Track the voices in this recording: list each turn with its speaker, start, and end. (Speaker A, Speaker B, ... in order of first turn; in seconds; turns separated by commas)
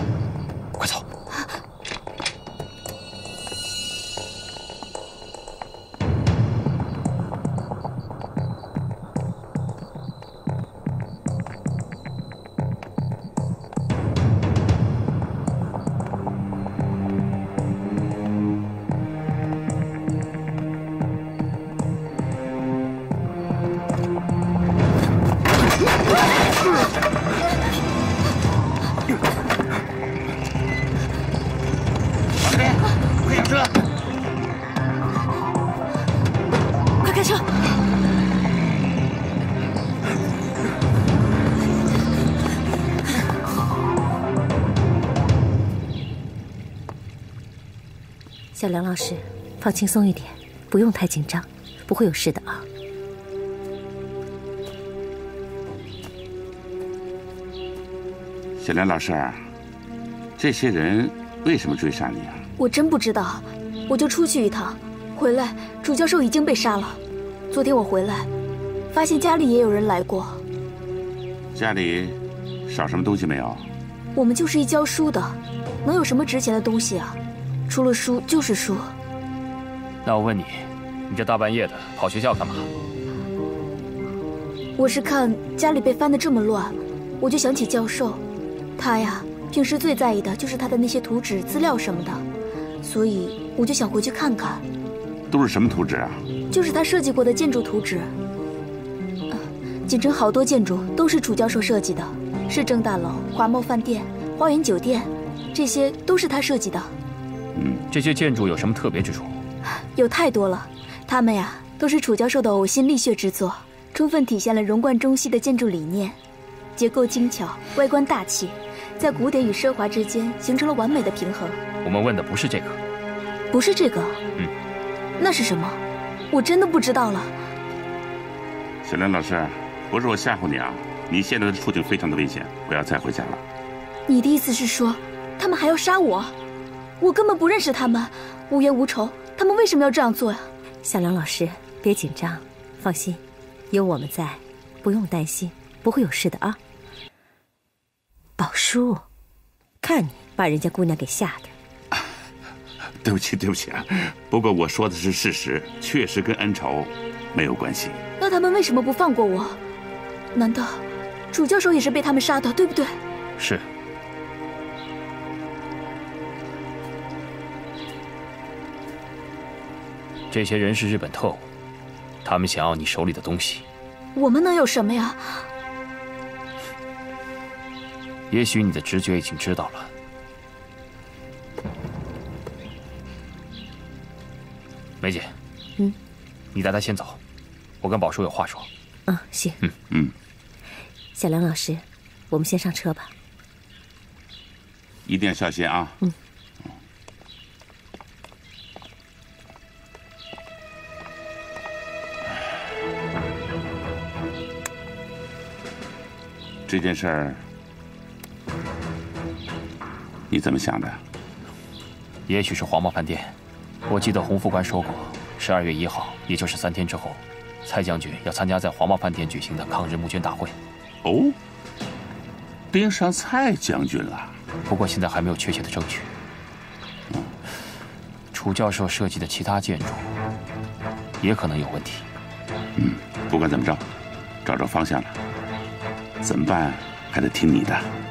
Speaker A: 32.4-33.7, Speaker B: 37.0-37.4, Speaker C: 48.5-52.6, Speaker A: 58.6-59.5, Speaker A: 60.4-62.5, Speaker B: 62.6-68.3, Speaker B: 68.9-70.4, Speaker A: 71.5-73.7, Speaker B: 74.1-78.9, Speaker D: 80.0-82.7, Speaker B: 84.8-88.2, Speaker B: 88.8-92.2, Speaker B: 92.8-94.6, Speaker A: 95.3-96.2, Speaker B: 96.5-98.1, Speaker B: 99.3-106.9, Speaker A: 107.5-107.8, Speaker D: 107.9-109.4, Speaker B: 109.9-116.2, Speaker B: 116.8-121.6, Speaker D: 121.8-122.8, Speaker B: 123.5-124.2, Speaker B: 125.2-127.4, Speaker A: 128.8-133.4, Speaker B: 134.1-136.3, Speaker B: 137.0-140.5, Speaker C: 140.8-146.6, Speaker C: 148.4-149.0, Speaker C: 149.8-151.5, Speaker A: 153.0-158.0, Speaker B: 158.2-159.6, Speaker B: 160.3-163.0, Speaker D: 163.4-163.6, Speaker D: 170.3-171.4, Speaker D: 172.2-173.6, Speaker B: 174.1-175.5, Speaker D: 178.3-179.9, Speaker D: 185.0-185.3, Speaker D: 186.5-187.2, Speaker D: 187.8-188.7, Speaker C: 189.1-189.6, Speaker C: 191.1-193.1, Speaker A: 195.1-195.9, Speaker A: 206.7-207.4, Speaker A: 210.3-211.0, Speaker D: 212.3-213.3, Speaker D: 213.9-220.5, Speaker A: 221.0-221.3, Speaker A: 222.7-224.4, Speaker D: 224.7-226.1, Speaker D: 228.3-230.1, Speaker D: 231.2-232.0, Speaker A: 232.8-233.8, Speaker A: 234.4-235.2, Speaker A: 236.2-237.9